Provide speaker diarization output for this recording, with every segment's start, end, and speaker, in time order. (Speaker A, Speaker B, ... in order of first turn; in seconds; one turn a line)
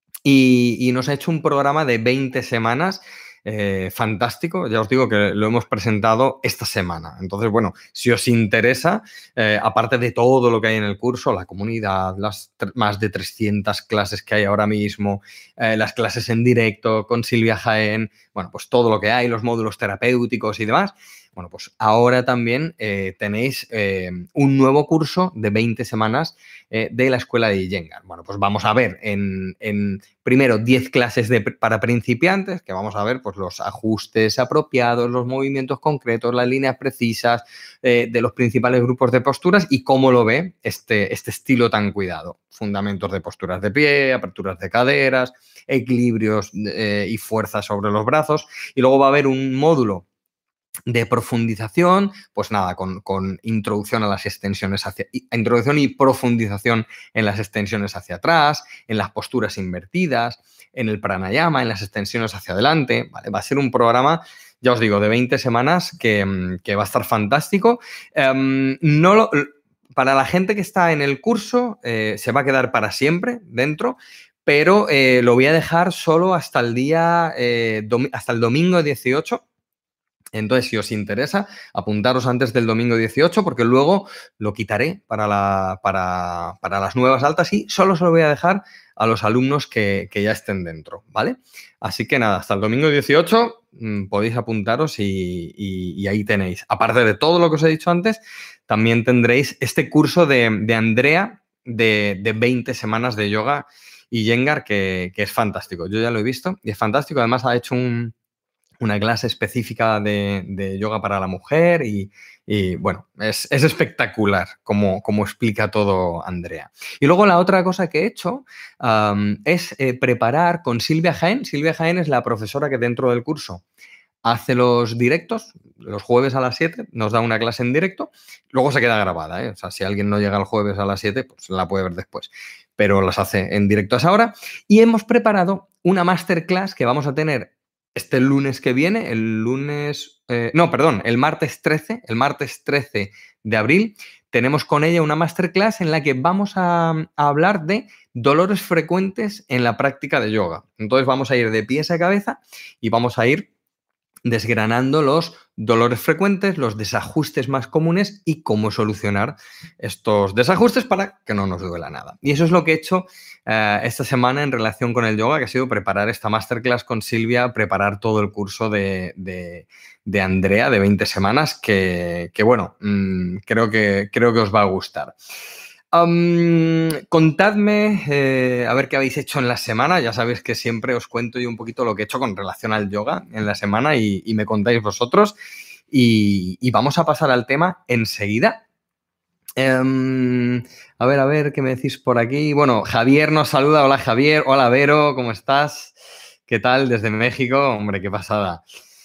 Speaker A: 0.2-50.1
Speaker A: 50.9-79.5
Speaker A: 80.3-108.1
Speaker A: 108.8-123.6
Speaker A: 124.2-153.5
Speaker A: 154.3-175.2
Speaker A: 175.9-185.3
Speaker A: 185.9-188.6
Speaker A: 189.6-196.0
Speaker A: 196.5-198.6